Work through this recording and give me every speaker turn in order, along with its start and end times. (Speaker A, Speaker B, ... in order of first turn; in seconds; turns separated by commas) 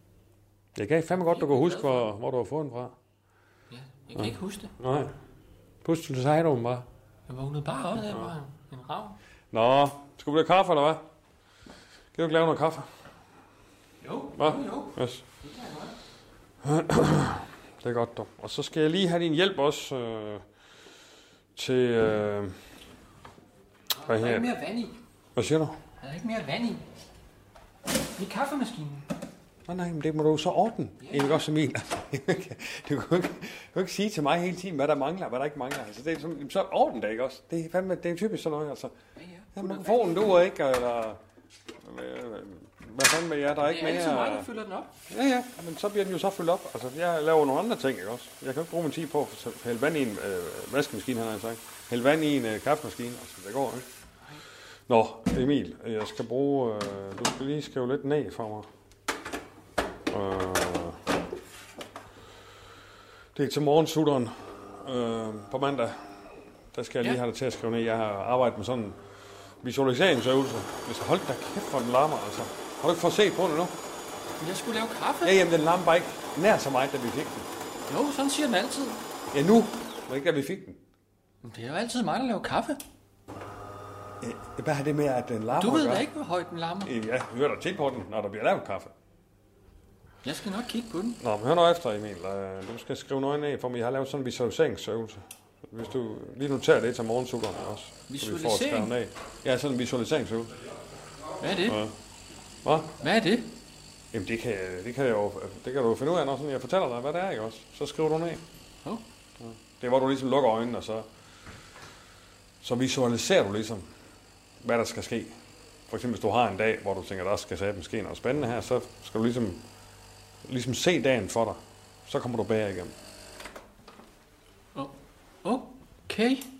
Speaker A: 0.7-2.9, Speaker B: 1.3-2.1, Speaker B: 3.7-4.7, Speaker A: 4.2-5.1, Speaker A: 5.8-6.8, Speaker B: 7.3-9.2, Speaker A: 8.0-8.3, Speaker A: 9.5-11.0, Speaker A: 12.1-12.9, Speaker B: 14.0-15.9, Speaker A: 14.3-15.2, Speaker A: 16.6-20.4, Speaker A: 21.6-22.6, Speaker B: 24.0-25.0, Speaker A: 24.0-24.5, Speaker A: 25.4-25.8, Speaker B: 26.0-26.8, Speaker B: 28.2-29.1, Speaker A: 29.7-38.9, Speaker B: 31.0-31.4, Speaker B: 39.2-40.2, Speaker A: 39.5-41.2, Speaker A: 41.8-44.5, Speaker B: 43.6-44.9, Speaker A: 45.1-53.8, Speaker A: 54.9-58.7, Speaker A: 60.1-61.0, Speaker A: 63.3-66.0, Speaker A: 66.7-69.0, Speaker A: 69.6-73.7, Speaker B: 74.4-75.4, Speaker A: 75.2-77.5, Speaker B: 77.9-79.0, Speaker A: 79.3-80.8, Speaker B: 81.4-82.8, Speaker A: 84.2-86.0, Speaker B: 85.5-86.9, Speaker A: 86.8-88.9, Speaker B: 90.2-91.2, Speaker A: 91.2-100.6, Speaker B: 98.1-98.9, Speaker B: 101.4-101.8, Speaker A: 101.6-101.9, Speaker A: 102.6-102.9, Speaker B: 103.0-103.5, Speaker A: 104.1-108.4, Speaker A: 109.4-111.1, Speaker A: 112.6-113.8, Speaker A: 114.6-115.3, Speaker A: 115.9-119.6, Speaker A: 120.4-122.9, Speaker B: 124.7-126.5